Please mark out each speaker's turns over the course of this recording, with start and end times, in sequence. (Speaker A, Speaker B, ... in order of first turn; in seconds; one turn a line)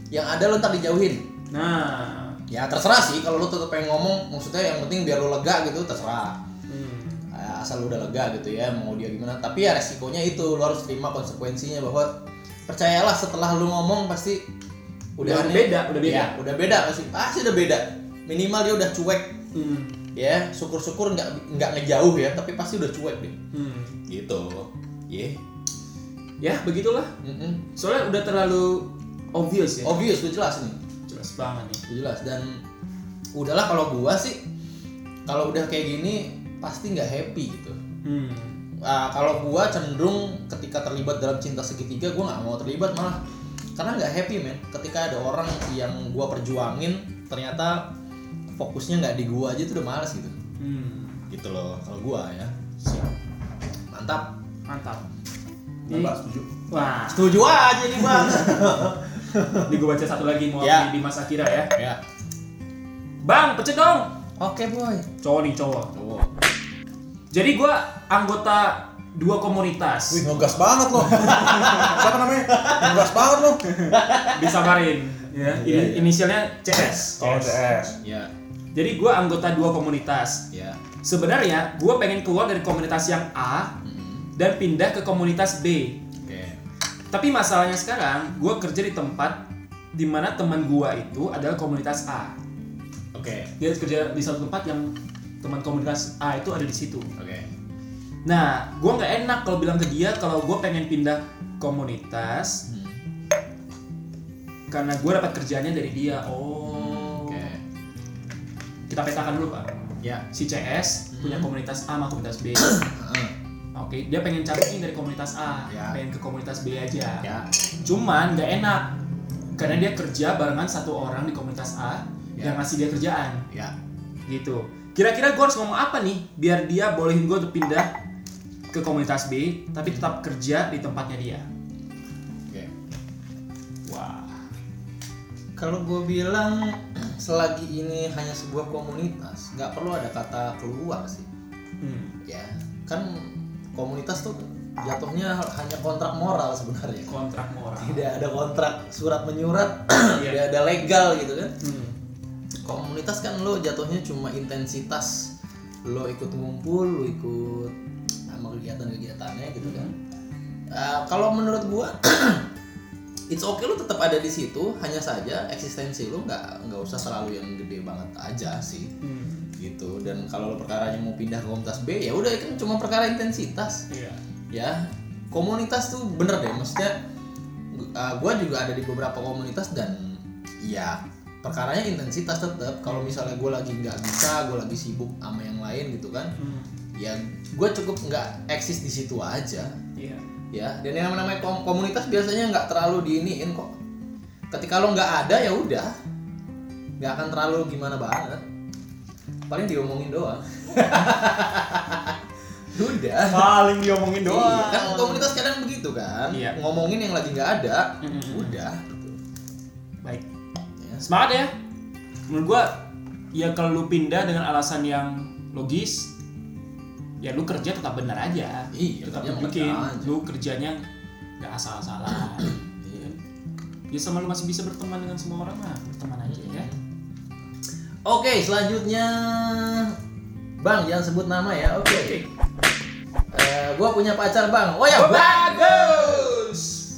Speaker A: 0.1-1.2
Speaker B: 1.5-2.4
Speaker A: 2.5-6.4
Speaker B: 6.7-7.2
Speaker A: 7.3-12.1
Speaker A: 12.7-14.4
Speaker A: 15.2-19.4
Speaker B: 15.2-16.3
Speaker B: 19.5-19.9
Speaker A: 20.1-23.4
Speaker B: 23.5-24.0
Speaker A: 24.1-25.4
Speaker B: 26.4-27.1
Speaker A: 27.2-27.6
Speaker B: 27.8-29.9
Speaker A: 29.8-30.8
Speaker B: 31.1-31.8
Speaker A: 31.9-32.6
Speaker A: 33.3-34.4
Speaker A: 35.3-37.8
Speaker B: 38.0-38.6
Speaker A: 38.8-43.2
Speaker A: 43.8-47.9
Speaker A: 48.5-50.4
Speaker B: 50.6-51.2
Speaker A: 51.3-52.5
Speaker B: 52.8-53.1
Speaker A: 53.9-54.3
Speaker B: 54.7-55.0
Speaker C: 55.9-56.5
Speaker B: 55.9-56.1
Speaker B: 56.7-57.4
Speaker A: 57.1-59.8
Speaker B: 59.7-61.7
Speaker A: 60.6-60.9
Speaker A: 61.7-62.0
Speaker B: 63.2-64.1
Speaker A: 64.4-65.0
Speaker B: 65.2-65.9
Speaker A: 65.9-66.3
Speaker B: 67.3-70.2
Speaker C: 70.1-73.7
Speaker A: 71.2-73.1
Speaker B: 73.6-77.6
Speaker A: 73.9-74.7
Speaker A: 75.4-76.2
Speaker C: 77.1-78.0
Speaker A: 78.0-78.3
Speaker B: 78.7-80.4
Speaker A: 80.5-80.8
Speaker B: 81.0-83.7
Speaker A: 83.8-84.2
Speaker B: 84.3-86.0
Speaker A: 86.2-86.6
Speaker B: 87.1-89.4
Speaker B: 89.9-92.3
Speaker A: 93.1-93.5
Speaker B: 93.6-97.1
Speaker A: 97.2-97.5
Speaker B: 98.2-102.6
Speaker A: 102.7-103.0
Speaker B: 104.7-107.5
Speaker A: 106.6-107.6
Speaker B: 108.9-109.7
Speaker B: 110.3-112.8
Speaker A: 111.1-111.5
Speaker A: 112.7-113.3
Speaker B: 113.7-117.3
Speaker A: 115.7-116.0
Speaker B: 117.8-118.9
Speaker B: 119.5-123.4
Speaker A: 122.4-122.7
Speaker B: 124.3-127.9
Speaker B: 128.7-131.5
Speaker B: 133.8-134.4
Speaker A: 135.6-141.3
Speaker B: 141.8-142.2
Speaker A: 142.2-147.1
Speaker B: 147.1-148.1
Speaker A: 147.8-151.5
Speaker B: 150.1-150.4
Speaker B: 151.6-151.9
Speaker A: 152.6-155.3
Speaker A: 155.8-157.7
Speaker A: 158.3-159.9
Speaker B: 159.6-159.9
Speaker A: 160.7-162.4
Speaker A: 163.3-168.9
Speaker B: 169.0-169.5
Speaker A: 169.6-173.8
Speaker B: 173.9-174.2
Speaker A: 174.5-176.9
Speaker A: 177.7-186.3
Speaker B: 182.9-183.2
Speaker B: 186.4-186.7
Speaker A: 186.9-189.7
Speaker B: 189.9-190.2
Speaker A: 190.5-193.7
Speaker A: 194.5-195.9
Speaker A: 197.0-198.4
Speaker A: 199.5-202.2
Speaker A: 202.7-203.5
Speaker B: 203.3-205.3
Speaker A: 204.2-209.2
Speaker B: 208.0-208.6
Speaker A: 210.8-211.0
Speaker B: 211.0-211.5
Speaker B: 212.3-212.8
Speaker B: 213.3-216.1
Speaker B: 217.2-220.8
Speaker A: 218.7-220.1
Speaker B: 221.4-223.1
Speaker A: 222.8-223.1
Speaker B: 223.9-226.7
Speaker A: 226.2-226.8
Speaker A: 228.0-229.9
Speaker A: 230.6-232.2
Speaker B: 231.8-232.2
Speaker A: 233.3-236.4
Speaker B: 234.9-236.8